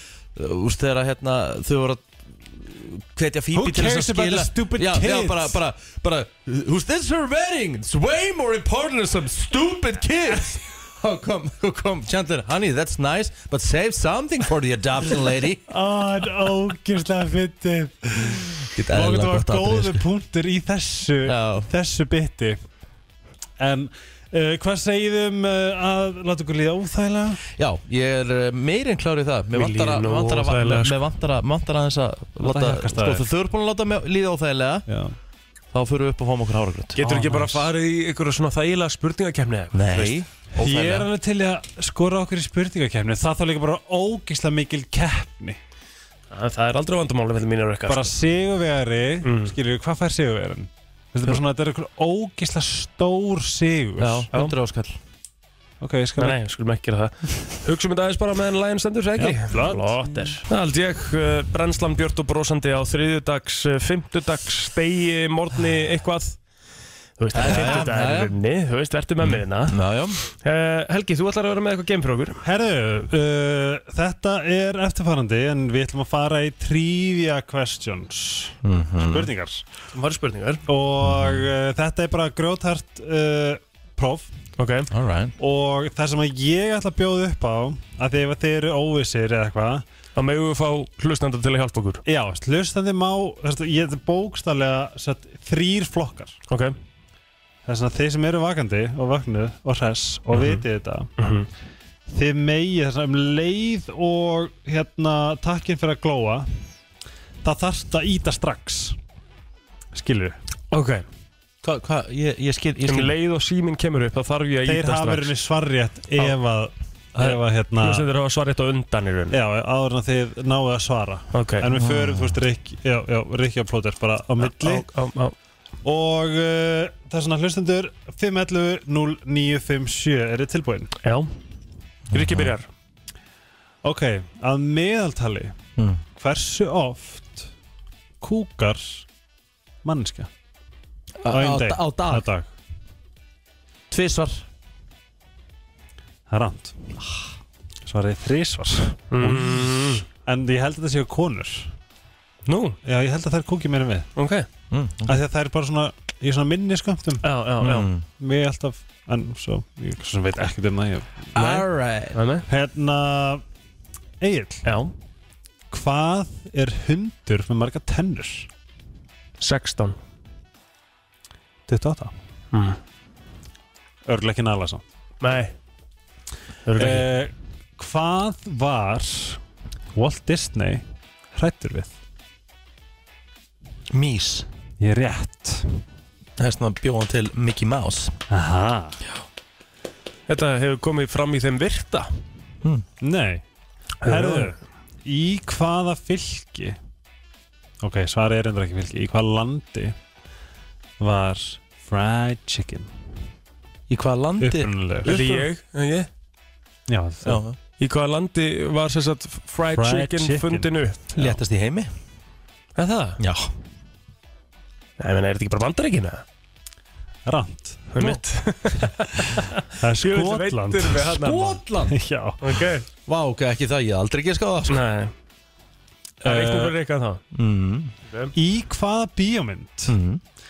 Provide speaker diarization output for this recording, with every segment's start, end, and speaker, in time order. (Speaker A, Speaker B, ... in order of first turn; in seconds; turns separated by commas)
Speaker A: 0.3-15.7, Speaker B: 3.5-5.6, Speaker B: 15.7-22.6, Speaker A: 18.8-20.0, Speaker A: 21.3-21.7, Speaker B: 23.6-27.4, Speaker A: 27.6-34.9, Speaker C: 29.5-31.0, Speaker B: 32.4-33.2, Speaker B: 34.9-35.1, Speaker A: 35.7-37.0, Speaker C: 37.0-40.2, Speaker B: 37.0-37.7, Speaker A: 39.7-41.1, Speaker B: 40.6-45.6, Speaker C: 46.3-48.1, Speaker B: 47.9-54.3, Speaker C: 49.2-49.5, Speaker A: 54.0-55.0, Speaker B: 55.8-56.4, Speaker C: 56.2-66.4, Speaker B: 59.2-60.4, Speaker C: 67.2-69.8, Speaker A: 67.3-68.3, Speaker B: 67.4-67.8, Speaker A: 69.2-70.2, Speaker C: 70.3-72.4, Speaker B: 72.4-79.7, Speaker A: 78.6-79.3, Speaker C: 79.9-80.6, Speaker B: 80.7-84.3, Speaker A: 81.0-81.4, Speaker C: 84.6-84.9, Speaker A: 84.9-85.3, Speaker B: 85.4-89.8, Speaker C: 90.2-92.0, Speaker B: 92.1-96.4, Speaker C: 96.5-96.8, Speaker B: 97.7-101.1, Speaker C: 100.3-100.6, Speaker C: 101.2-101.5, Speaker B: 102.1-106.5, Speaker B: 107.4-109.0, Speaker B: 109.9-110.4, Speaker C: 110.7-111.1, Speaker A: 111.6-113.1, Speaker C: 112.9-115.3, Speaker B: 114.7-118.1, Speaker C: 117.2-119.4, Speaker B: 119.3-124.9, Speaker C: 121.3-121.7, Speaker A: 121.7-122.4, Speaker C: 124.4-125.3, Speaker B: 125.8-130.9, Speaker C: 131.0-131.3, Speaker A: 132.1-132.5, Speaker C: 132.1-132.7, Speaker B: 133.8-135.6, Speaker A: 135.8-136.0, Speaker B: 136.2-137.5, Speaker B: 138.2-139.1, Speaker B: 139.8-140.3, Speaker A: 141.2-142.2, Speaker B: 141.3-142.5, Speaker A: 143.9-144.4, Speaker B: 146.3-146.9, Speaker B: 147.9-151.7, Speaker C: 149.1-150.1, Speaker C: 152.5-152.8, Speaker B: 152.8-154.1, Speaker C: 154.2-154.5, Speaker A: 154.7-155.2, Speaker B: 155.1-157.3, Speaker C: 157.2-157.9, Speaker A: 157.6-158.1, Speaker B: 158.2-161.3, Speaker A: 161.3-162.2, Speaker C: 161.4-162.4, Speaker B: 162.5-163.4, Speaker B: 164.2-164.7, Speaker C: 164.7-164.9, Speaker B: 165.7-168.5, Speaker C: 169.4-170.0, Speaker B: 171.7-172.1, Speaker C: 172.5-172.8, Speaker B: 174.1-174.8, Speaker C: 175.2-175.5, Speaker C: 176.7-177.1, Speaker B: 176.8-179.4, Speaker B: 179.9-181.9, Speaker A: 183.9-184.5, Speaker B: 184.8-185.8, Speaker A: 186.4-188.2, Speaker B: 188.3-189.0, Speaker C: 190.3-192.1, Speaker B: 193.0-193.4, Speaker B: 194.0-196.8, Speaker C: 194.0-194.6, Speaker B: 197.8-200.0, Speaker B: 201.0-202.9, Speaker A: 203.9-204.7, Speaker B: 204.4-205.5, Speaker C: 205.1-206.1, Speaker B: 206.9-207.4, Speaker A: 207.2-207.6, Speaker C: 207.8-211.0, Speaker B: 209.7-211.4, Speaker A: 211.2-211.9, Speaker C: 212.8-213.2, Speaker A: 213.2-213.5, Speaker C: 215.0-216.2, Speaker B: 217.3-218.0, Speaker C: 217.9-221.6, Speaker B: 219.8-221.2, Speaker A: 221.2-221.9, Speaker B: 221.9-222.7, Speaker C: 222.4-222.8, Speaker A: 223.1-224.8, Speaker C: 224.7-225.1, Speaker B: 226.2-226.8, Speaker C: 226.2-227.2, Speaker A: 227.3-227.9, Speaker C: 228.1-228.3, Speaker B: 228.3-229.9, Speaker A: 229.9-230.2